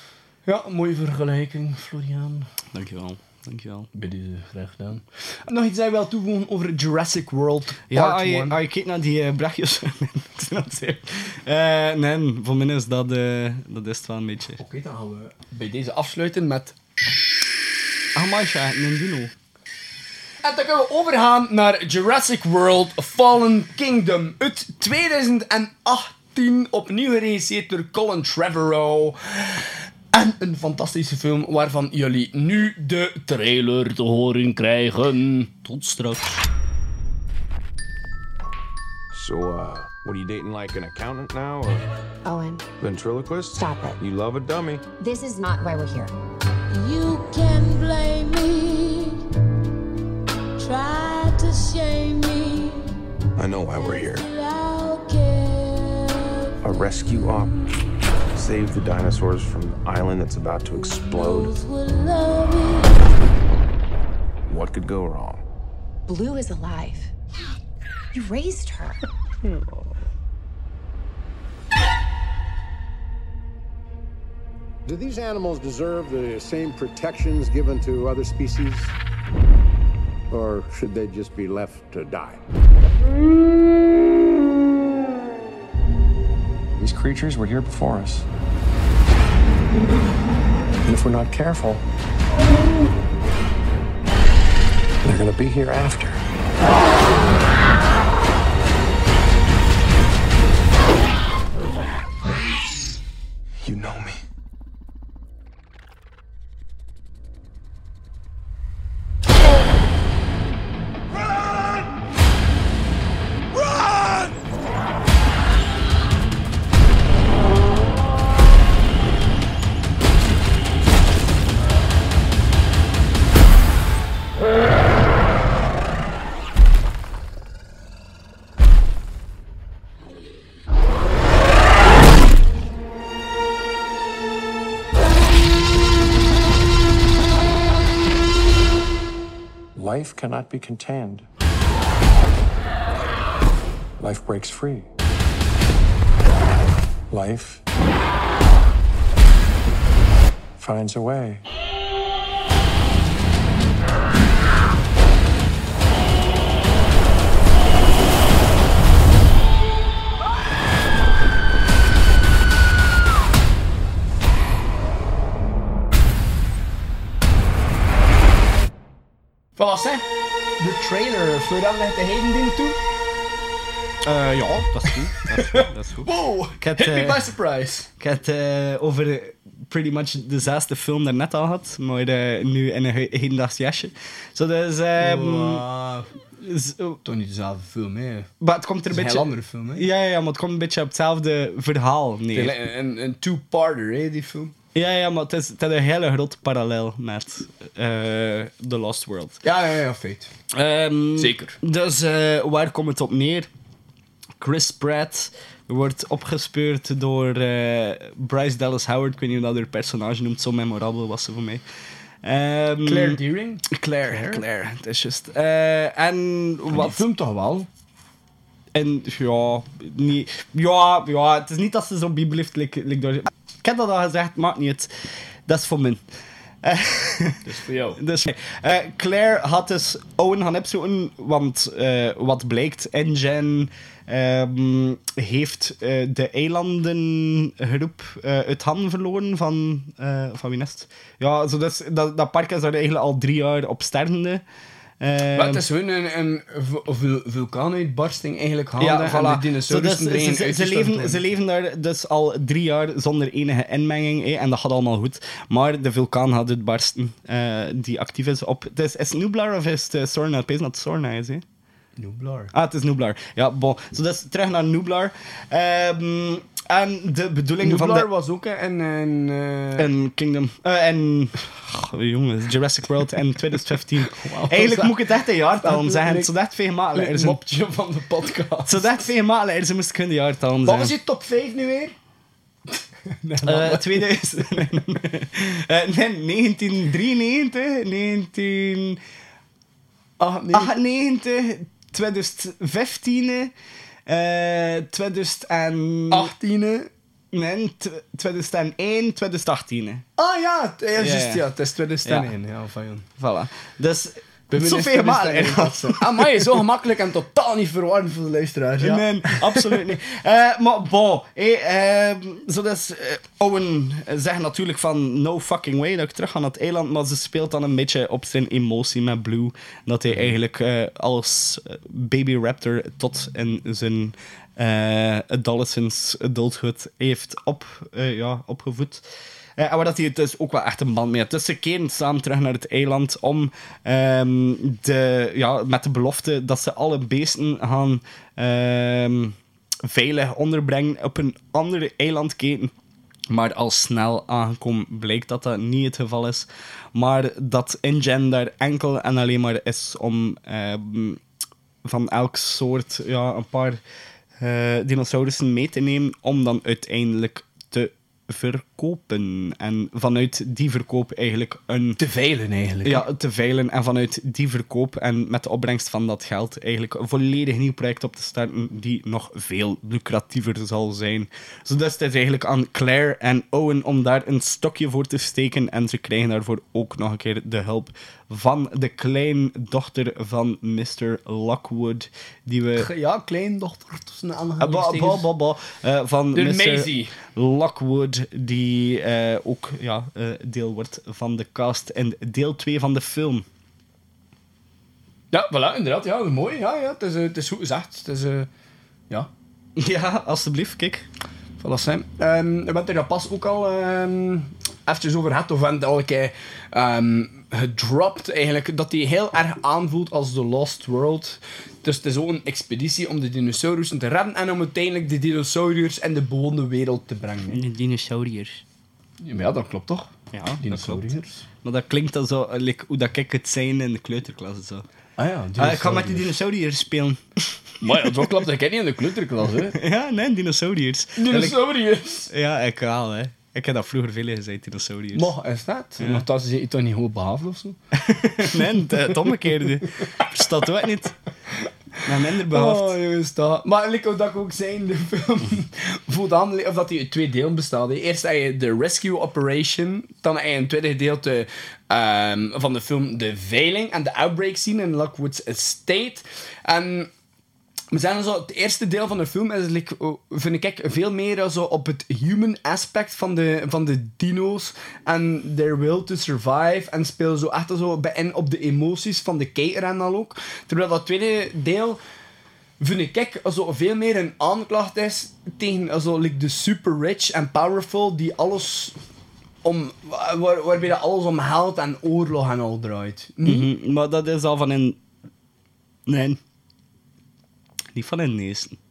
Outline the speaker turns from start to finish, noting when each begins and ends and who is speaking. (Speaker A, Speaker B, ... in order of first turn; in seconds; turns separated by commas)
Speaker A: 0.5-2.5, Speaker B: 2.7-3.9, Speaker A: 3.9-8.6, Speaker B: 7.9-14.6, Speaker A: 14.6-16.7, Speaker B: 18.1-19.3, Speaker A: 20.4-35.5, Speaker B: 35.6-36.5, Speaker C: 39.1-41.8, Speaker D: 42.2-42.7, Speaker C: 42.8-44.8, Speaker D: 43.5-44.0, Speaker D: 45.0-46.1, Speaker E: 46.7-49.2, Speaker E: 50.6-52.9, Speaker C: 53.4-54.2, Speaker E: 53.9-56.5, Speaker C: 56.6-57.5, Speaker C: 58.3-61.5, Speaker E: 61.0-63.1, Speaker C: 64.5-65.4, Speaker D: 66.1-67.1, Speaker D: 68.1-69.0, Speaker F: 74.8-78.9, Speaker F: 80.3-82.4, Speaker C: 86.8-88.2, Speaker C: 90.8-91.8, Speaker C: 95.0-96.2, Speaker C: 103.7-104.2, Speaker C: 139.8-141.2, Speaker C: 144.0-144.8, Speaker C: 147.1-147.6, Speaker C: 150.6-151.4, Speaker A: 169.6-170.1, Speaker A: 170.6-172.8, Speaker B: 174.0-177.3, Speaker A: 175.2-177.9, Speaker B: 178.0-185.7, Speaker A: 185.0-186.1, Speaker B: 186.4-187.0, Speaker A: 187.0-188.3, Speaker B: 188.4-192.6, Speaker A: 188.9-189.8, Speaker A: 192.3-194.5, Speaker B: 194.7-199.4, Speaker A: 199.4-200.3, Speaker B: 200.5-203.5, Speaker A: 201.2-201.6, Speaker B: 204.4-211.6, Speaker B: 212.2-213.2, Speaker A: 212.8-214.4, Speaker B: 213.7-217.0, Speaker A: 216.7-217.7, Speaker B: 218.7-226.0, Speaker B: 226.6-244.4, Speaker A: 227.4-228.0, Speaker B: 245.0-245.6, Speaker A: 245.3-251.2, Speaker B: 248.8-261.4, Speaker A: 262.0-262.5, Speaker B: 262.5-268.1, Speaker A: 267.6-269.9, Speaker B: 269.8-277.4, Speaker A: 274.0-275.1, Speaker A: 275.6-276.3, Speaker A: 276.9-279.0, Speaker B: 278.6-280.9, Speaker A: 280.6-281.9, Speaker A: 283.1-284.9, Speaker B: 283.4-289.0, Speaker A: 290.2-290.7, Speaker B: 290.5-293.5, Speaker B: 294.1-296.3, Speaker A: 296.1-296.9, Speaker B: 297.3-300.0, Speaker A: 300.2-303.1, Speaker B: 301.0-301.4, Speaker B: 302.0-302.3, Speaker B: 303.2-306.6, Speaker A: 304.5-309.9, Speaker B: 308.8-329.0, Speaker B: 329.6-342.7, Speaker B: 343.3-351.2, Speaker B: 351.8-353.8, Speaker B: 354.4-362.0, Speaker A: 362.0-363.0, Speaker B: 362.8-382.9, Speaker A: 382.8-385.3, Speaker B: 384.6-393.4, Speaker A: 386.3-387.1, Speaker A: 395.3-398.5, Speaker B: 399.8-401.1, Speaker A: 401.6-417.6, Speaker B: 417.5-418.6, Speaker A: 419.2-421.4, Speaker B: 420.3-424.8, Speaker A: 425.2-426.3, Speaker B: 425.6-428.3, Speaker A: 427.8-429.8, Speaker B: 429.7-431.6, Speaker A: 431.2-432.3, Speaker B: 432.3-435.3, Speaker A: 435.1-437.8, Speaker B: 436.0-436.2, Speaker B: 437.9-441.1, Speaker A: 438.4-439.3, Speaker B: 442.0-443.0, Speaker A: 442.5-457.1, Speaker A: 457.9-472.0, Speaker A: 472.8-478.9, Speaker A: 479.6-483.7, Speaker B: 483.4-485.0, Speaker B: 486.1-486.4, Speaker B: 487.9-488.8